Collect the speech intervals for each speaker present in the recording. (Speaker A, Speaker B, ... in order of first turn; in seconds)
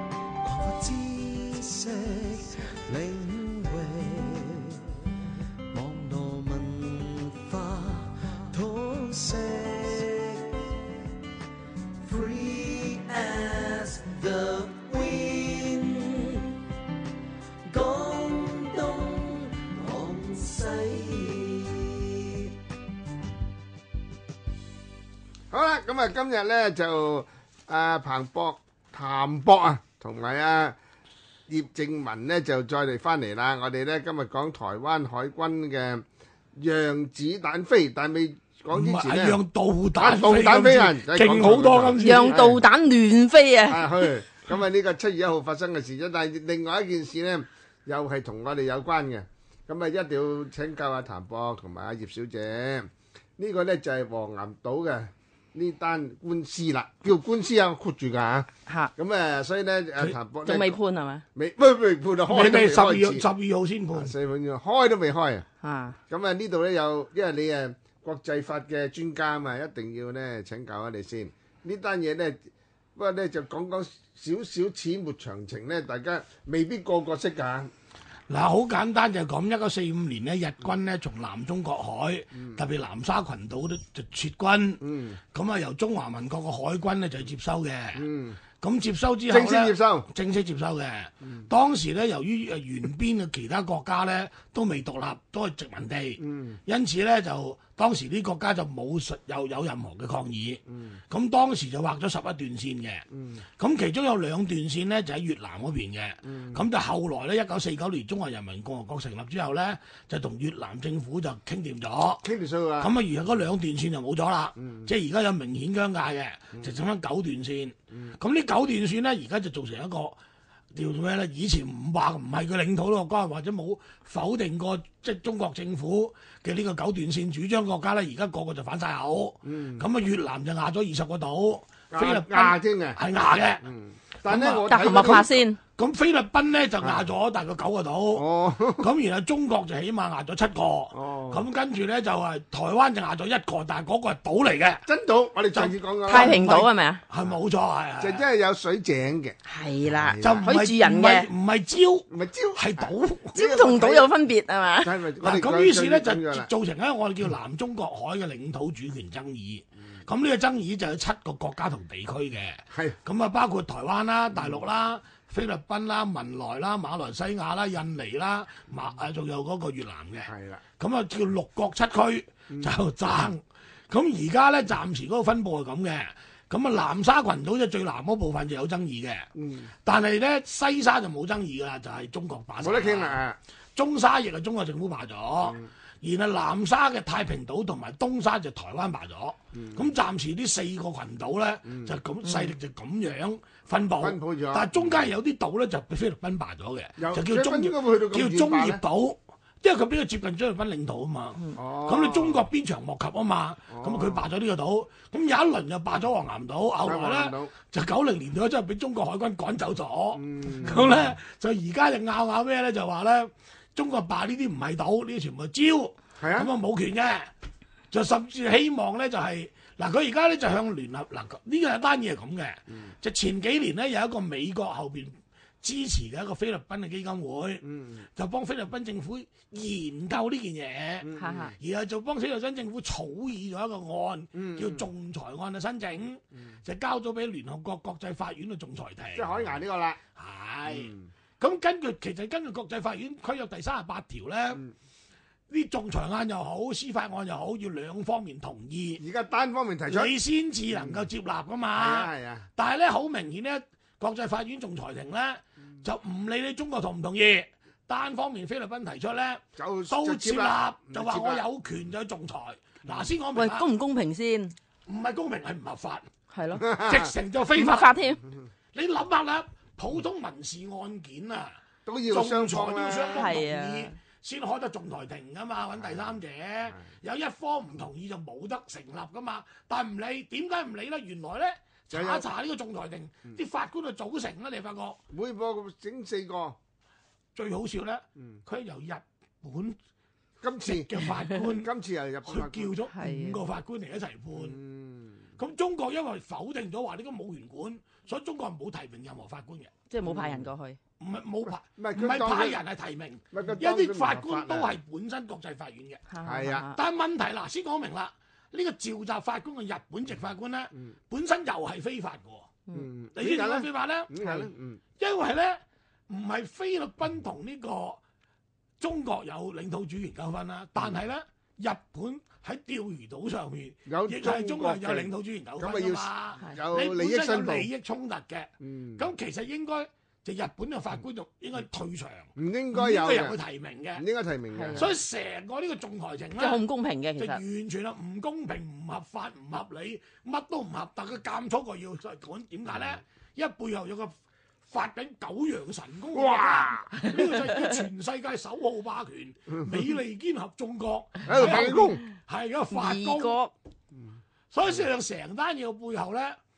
Speaker A: 0.4-4.8, 5.7-10.7, 12.0-16.6, 17.7-22.5
Speaker B: 25.5-30.8, 31.5-39.4, 40.0-42.6, 43.7-60.8, 61.4-63.3, 63.9-65.5, 66.1-77.7, 84.8-85.2, 88.0-88.4, 89.3-90.1, 96.2-96.6, 100.7-101.0, 103.1-103.4, 106.2-106.6, 112.2-112.9, 114.6-114.9, 129.4-129.9, 131.9-133.0, 133.6-135.4, 136.8-137.1, 138.1-138.9, 140.9-141.5, 144.8-146.4, 148.0-150.5, 152.1-154.1, 154.8-156.5, 162.7-163.0, 164.3-164.7, 170.3-170.6, 172.5-173.3, 179.3-179.7, 182.6-183.4, 185.4-185.7, 189.5-189.9, 191.7-192.0, 194.0-195.1, 197.0-198.8, 201.6-202.5, 203.7-204.3, 206.8-207.5, 210.1-211.0, 216.2-216.5, 227.6-228.1, 231.0-231.6, 234.3-234.9, 239.1-240.0, 240.7-241.1, 249.0-250.2, 250.7-251.1, 251.8-252.5, 259.6-261.5, 266.6-267.1, 271.9-273.3, 275.8-276.9, 281.9-282.3, 285.1-286.6, 290.4-292.8, 294.3-295.3, 300.0-300.5, 301.6-302.6, 303.3-304.7, 306.2-306.7, 312.7-314.8, 323.9-327.7, 328.6-329.1, 332.4-333.4, 334.0-334.9, 346.1-346.8, 351.2-352.0
Speaker C: 38.7-42.5, 62.3-64.1, 78.3-88.0, 88.6-103.1, 103.6-112.2, 112.8-120.2, 120.7-133.7, 134.2-138.2, 138.8-144.9, 145.5-148.3, 150.2-153.4, 155.2-179.3, 179.8-183.2, 183.8-217.3, 217.9-239.6, 240.2-244.6, 245.5-249.0, 249.9-263.7, 264.9-266.1, 266.7-267.9, 268.7-285.0, 287.4-289.8, 290.6-291.7, 292.3-294.6, 295.4-299.7, 301.0-306.1, 306.7-312.5, 313.2-318.0, 318.8-334.0, 334.8-336.6, 337.2-344.1, 344.7-353.4, 354.5-356.4
Speaker D: 42.0-43.9, 58.7-58.9, 60.5-61.2, 65.6-66.0, 134.7-135.6, 146.1-147.0, 149.4-151.3, 153.3-155.0, 192.2-192.6, 231.1-231.6, 263.3-264.6, 266.3-266.7, 267.5-268.2, 273.1-274.0, 292.9-293.4, 299.9-300.8, 306.1-306.8, 334.5-334.9, 336.4-337.4, 352.7-353.5